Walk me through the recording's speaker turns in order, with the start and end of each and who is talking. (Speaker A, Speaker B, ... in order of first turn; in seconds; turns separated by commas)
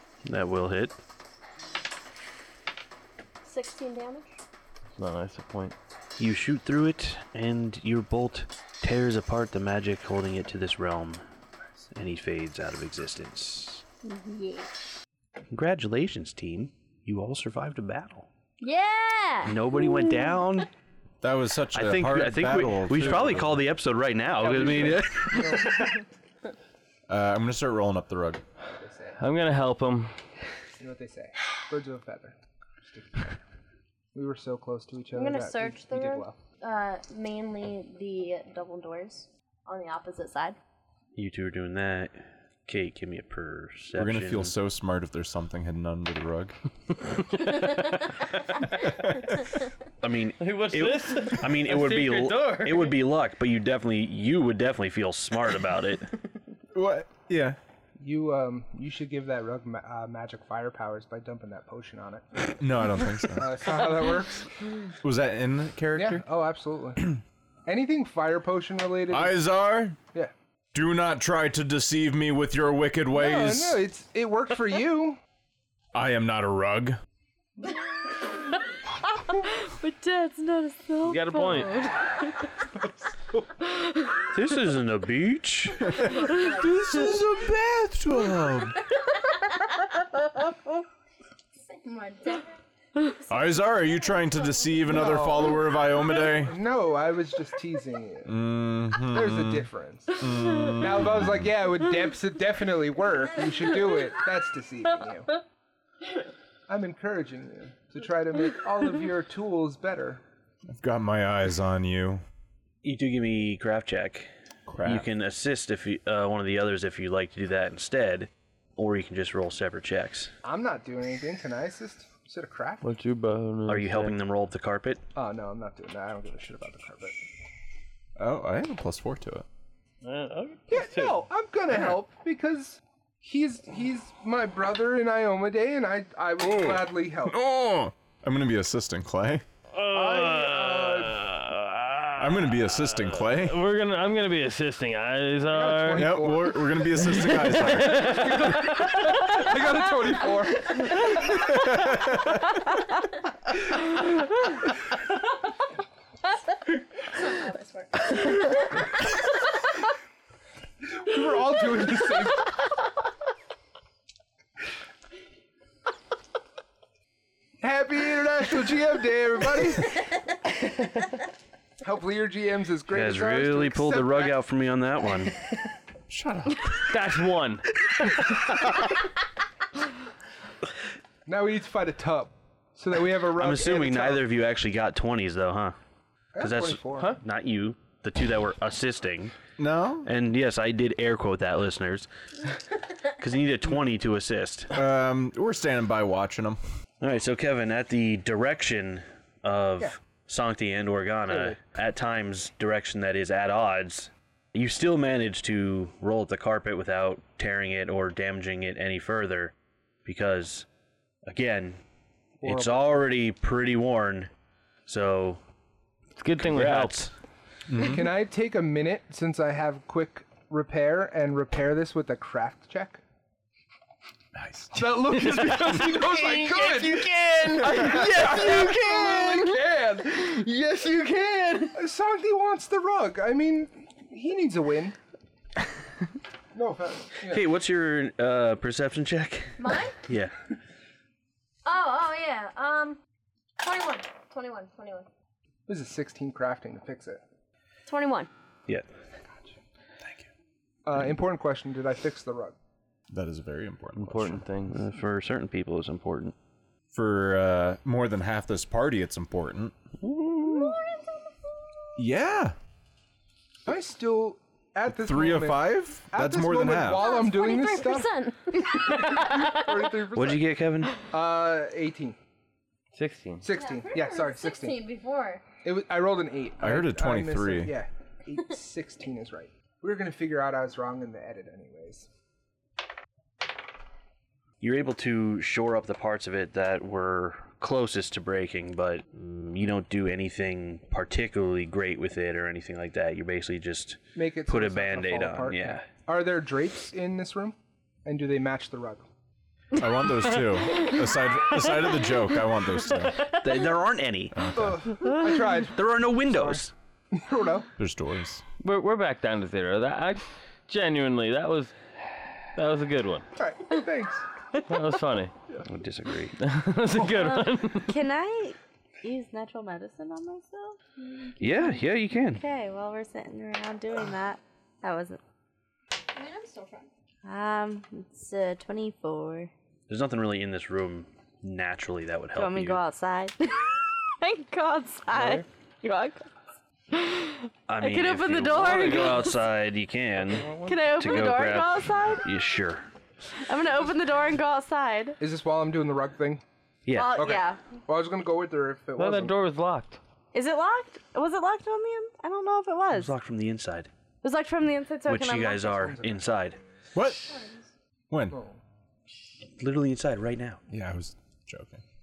Speaker A: 0.2-0.9, Speaker B: 3.4-4.4, Speaker C: 5.0-5.8, Speaker A: 6.2-11.2, Speaker A: 11.9-13.8, Speaker B: 14.0-14.7, Speaker A: 15.5-18.3, Speaker B: 18.6-20.4, Speaker A: 19.4-20.7, Speaker D: 21.2-23.6, Speaker A: 21.7-26.0, Speaker C: 22.9-23.2, Speaker E: 24.4-26.0, Speaker D: 27.1-28.4, Speaker E: 28.8-29.2, Speaker C: 29.2-30.1, Speaker E: 30.8-32.4, Speaker E: 32.9-33.4, Speaker E: 34.1-36.4, Speaker B: 35.1-40.6, Speaker A: 41.1-44.5, Speaker D: 43.9-46.5, Speaker C: 47.4-48.3, Speaker D: 48.8-49.2, Speaker A: 50.0-56.1, Speaker C: 50.4-53.0, Speaker D: 56.7-57.6, Speaker E: 58.0-62.5, Speaker D: 62.5-64.0, Speaker E: 63.3-64.5, Speaker D: 65.0-66.2, Speaker E: 65.9-67.1, Speaker E: 67.7-69.3, Speaker D: 69.1-70.0, Speaker D: 70.7-73.8, Speaker E: 73.1-75.2, Speaker D: 75.9-77.0, Speaker F: 79.2-82.3, Speaker C: 81.0-82.0, Speaker A: 84.3-86.1, Speaker D: 85.9-88.8, Speaker B: 86.1-86.6, Speaker B: 91.7-92.5, Speaker D: 93.2-96.6, Speaker E: 94.9-95.6, Speaker E: 96.2-98.4, Speaker D: 98.2-101.5, Speaker E: 99.0-105.4, Speaker E: 106.7-110.2, Speaker D: 110.7-112.2, Speaker A: 112.8-114.3, Speaker D: 114.7-115.1, Speaker A: 114.8-120.3, Speaker E: 120.4-122.8, Speaker C: 122.8-124.1, Speaker A: 123.7-125.0, Speaker E: 125.1-127.2, Speaker D: 128.2-129.4, Speaker C: 130.0-131.2, Speaker E: 130.7-137.3, Speaker D: 136.4-139.4, Speaker C: 139.7-146.2, Speaker E: 139.9-141.3, Speaker D: 142.2-143.6, Speaker E: 145.5-146.7, Speaker D: 145.9-148.6, Speaker C: 146.9-149.4, Speaker E: 147.5-151.4, Speaker D: 151.2-152.6, Speaker B: 157.1-158.8, Speaker E: 160.8-162.5, Speaker E: 167.6-170.2, Speaker E: 171.8-174.3, Speaker A: 172.9-175.4, Speaker D: 176.1-177.0, Speaker C: 176.9-177.7, Speaker E: 181.2-184.2, Speaker A: 183.3-185.8, Speaker E: 186.3-187.2, Speaker A: 186.4-189.3, Speaker D: 189.6-190.1, Speaker A: 190.0-192.1, Speaker A: 193.0-194.8, Speaker D: 194.7-196.6, Speaker A: 197.0-209.5, Speaker E: 201.3-201.6, Speaker A: 210.0-210.7, Speaker A: 211.2-211.8, Speaker A: 212.4-214.3, Speaker E: 212.4-213.1, Speaker A: 214.9-215.4, Speaker C: 216.2-217.0, Speaker A: 216.3-217.1, Speaker D: 217.7-218.2, Speaker E: 217.8-223.0, Speaker D: 224.3-224.8, Speaker E: 224.7-230.2, Speaker C: 224.9-231.8, Speaker E: 231.7-234.9, Speaker E: 236.5-237.4, Speaker A: 237.2-240.3, Speaker B: 239.6-240.0, Speaker B: 241.6-243.0, Speaker B: 243.6-245.1, Speaker E: 245.7-247.2, Speaker B: 247.9-248.3, Speaker E: 250.8-252.6, Speaker D: 253.1-254.4, Speaker C: 254.0-254.8, Speaker A: 254.7-256.3, Speaker D: 256.9-259.8, Speaker A: 260.0-260.7, Speaker B: 260.4-261.5, Speaker D: 261.9-262.6, Speaker E: 263.6-268.1, Speaker D: 264.9-267.0, Speaker B: 267.0-269.9, Speaker E: 268.8-270.5, Speaker A: 270.1-270.9, Speaker E: 271.1-272.2, Speaker C: 272.9-273.4, Speaker E: 273.4-274.9, Speaker B: 273.5-275.4, Speaker E: 275.6-282.1, Speaker D: 276.6-277.8, Speaker A: 284.6-295.9, Speaker E: 294.1-299.1, Speaker D: 299.7-303.3, Speaker A: 303.3-304.5, Speaker D: 304.3-304.9, Speaker E: 304.5-306.6, Speaker A: 305.7-306.7, Speaker E: 307.1-307.7, Speaker D: 307.8-308.4, Speaker C: 308.6-311.8, Speaker C: 312.4-313.3, Speaker E: 313.4-314.2, Speaker C: 314.7-315.3, Speaker A: 315.6-316.4, Speaker C: 316.4-318.0, Speaker F: 317.0-321.8, Speaker A: 321.4-322.4, Speaker F: 322.4-325.2, Speaker B: 326.1-326.9, Speaker F: 327.2-329.5, Speaker A: 329.9-332.8, Speaker F: 332.3-336.3, Speaker E: 335.1-335.4, Speaker F: 336.9-339.4, Speaker A: 337.7-342.9, Speaker E: 338.6-339.2, Speaker E: 340.2-341.1, Speaker F: 340.6-342.2, Speaker F: 343.3-345.2, Speaker E: 345.2-346.4, Speaker A: 346.9-347.2, Speaker F: 346.9-347.6, Speaker E: 347.1-349.3, Speaker C: 349.0-350.0, Speaker F: 350.3-353.1, Speaker A: 352.9-353.9, Speaker F: 354.2-356.0, Speaker A: 355.1-356.6, Speaker E: 355.9-356.4, Speaker D: 356.9-357.4, Speaker B: 357.2-357.7, Speaker D: 358.1-358.4, Speaker E: 358.3-358.6, Speaker A: 359.6-360.6, Speaker D: 360.7-361.8